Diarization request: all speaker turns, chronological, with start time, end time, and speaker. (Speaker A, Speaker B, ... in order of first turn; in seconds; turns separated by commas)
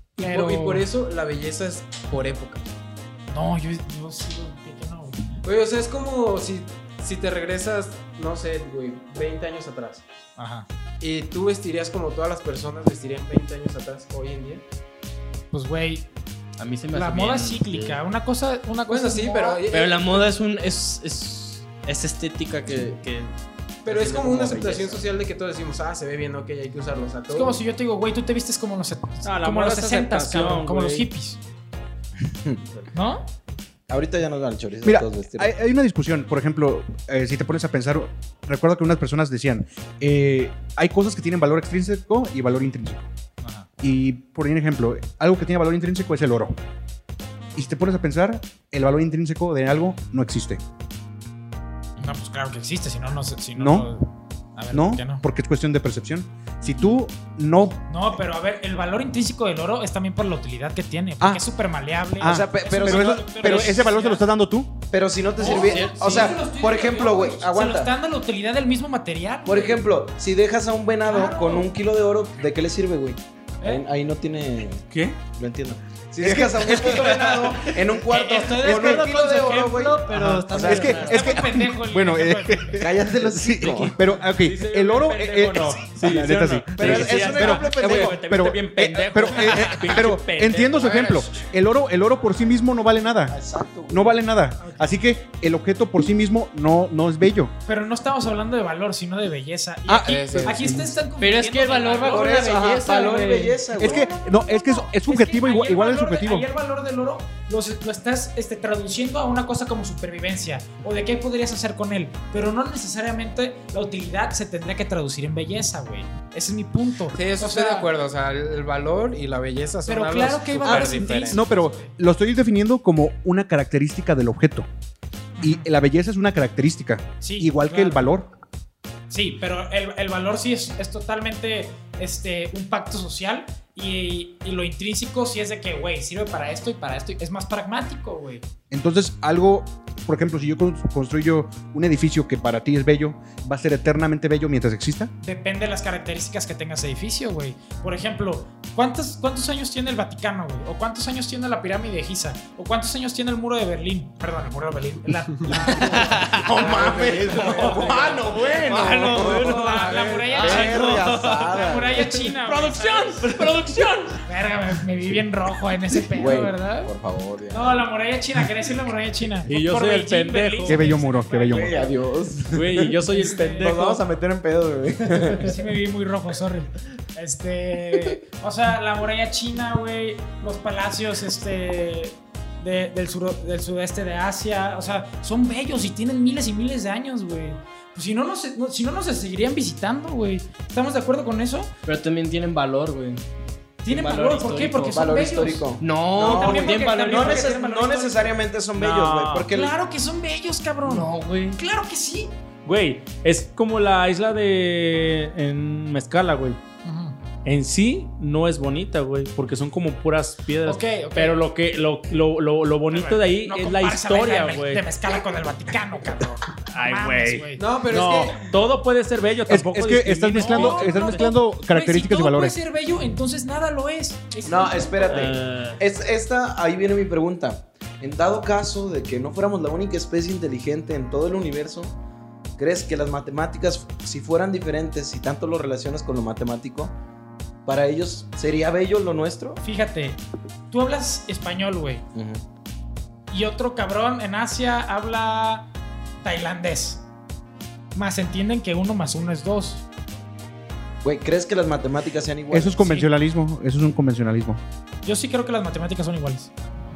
Speaker A: 0.2-0.8, Speaker B: 0.2-2.7, Speaker A: 3.3-5.3, Speaker B: 5.4-10.0, Speaker A: 10.4-10.7, Speaker B: 11.0-14.6, Speaker A: 15.5-16.1, Speaker C: 16.6-18.0, Speaker A: 16.9-19.6, Speaker B: 18.9-20.3, Speaker C: 19.7-23.3, Speaker C: 23.9-24.8, Speaker B: 23.9-27.6, Speaker A: 27.3-31.4, Speaker D: 29.2-31.1, Speaker E: 32.3-32.6, Speaker A: 32.9-33.3, Speaker E: 33.9-35.5, Speaker F: 34.8-43.1, Speaker A: 43.4-43.7, Speaker F: 43.8-46.6, Speaker F: 47.5-50.6, Speaker A: 52.0-55.2, Speaker F: 53.5-53.9, Speaker F: 54.7-57.9, Speaker A: 57.9-64.2, Speaker F: 62.2-64.8, Speaker E: 62.2-63.9, Speaker E: 64.9-67.9, Speaker A: 65.4-69.8, Speaker C: 65.4-66.3, Speaker E: 69.5-81.1, Speaker A: 71.0-71.7, Speaker D: 74.9-75.2, Speaker F: 76.2-77.4, Speaker C: 77.1-77.3, Speaker A: 78.1-79.8, Speaker C: 78.1-81.4, Speaker F: 80.1-93.4, Speaker A: 80.8-82.8, Speaker E: 82.8-84.0, Speaker D: 84.3-91.1, Speaker E: 86.7-88.2, Speaker B: 90.9-91.2, Speaker E: 93.3-94.2, Speaker F: 93.9-97.5, Speaker A: 94.6-94.9, Speaker A: 97.7-102.6, Speaker F: 99.9-100.9, Speaker B: 100.0-100.7, Speaker C: 101.2-103.6, Speaker E: 102.1-104.1, Speaker A: 103.7-117.9, Speaker F: 103.8-106.5, Speaker B: 117.1-121.4, Speaker A: 119.9-121.9, Speaker F: 120.6-124.7, Speaker A: 125.4-125.7, Speaker F: 125.4-128.3, Speaker A: 127.2-128.1, Speaker A: 129.1-138.4, Speaker F: 138.7-145.1, Speaker A: 145.2-158.2, Speaker C: 155.5-161.5, Speaker E: 156.1-162.2, Speaker B: 156.8-158.7, Speaker A: 159.2-163.3, Speaker B: 159.5-160.4, Speaker D: 162.4-164.2, Speaker C: 163.2-163.6, Speaker A: 164.2-166.9, Speaker E: 166.1-167.7, Speaker A: 167.5-172.0, Speaker D: 169.4-170.9, Speaker F: 170.7-171.8, Speaker E: 171.5-173.0, Speaker D: 172.5-174.0, Speaker A: 173.1-173.7, Speaker E: 173.6-175.6, Speaker A: 175.3-191.7, Speaker C: 191.9-193.2, Speaker A: 193.8-195.7, Speaker C: 193.9-195.0, Speaker E: 194.9-199.7, Speaker C: 195.8-197.5, Speaker A: 196.2-198.4, Speaker D: 198.8-199.5, Speaker A: 199.5-202.3, Speaker C: 200.8-201.6, Speaker D: 202.6-206.6, Speaker A: 206.8-207.2, Speaker D: 207.4-214.9, Speaker A: 210.6-211.4, Speaker A: 212.9-217.6, Speaker D: 216.7-221.2, Speaker B: 217.6-218.5, Speaker F: 219.5-222.6, Speaker A: 220.3-225.3, Speaker E: 224.4-231.9, Speaker D: 225.1-225.8, Speaker E: 232.6-236.9, Speaker E: 237.7-239.6, Speaker A: 239.6-242.0, Speaker E: 242.1-242.4, Speaker A: 243.3-245.7, Speaker A: 246.2-247.0, Speaker A: 247.9-249.8, Speaker E: 251.0-252.9, Speaker F: 252.5-254.6, Speaker A: 252.8-253.1, Speaker A: 255.0-256.5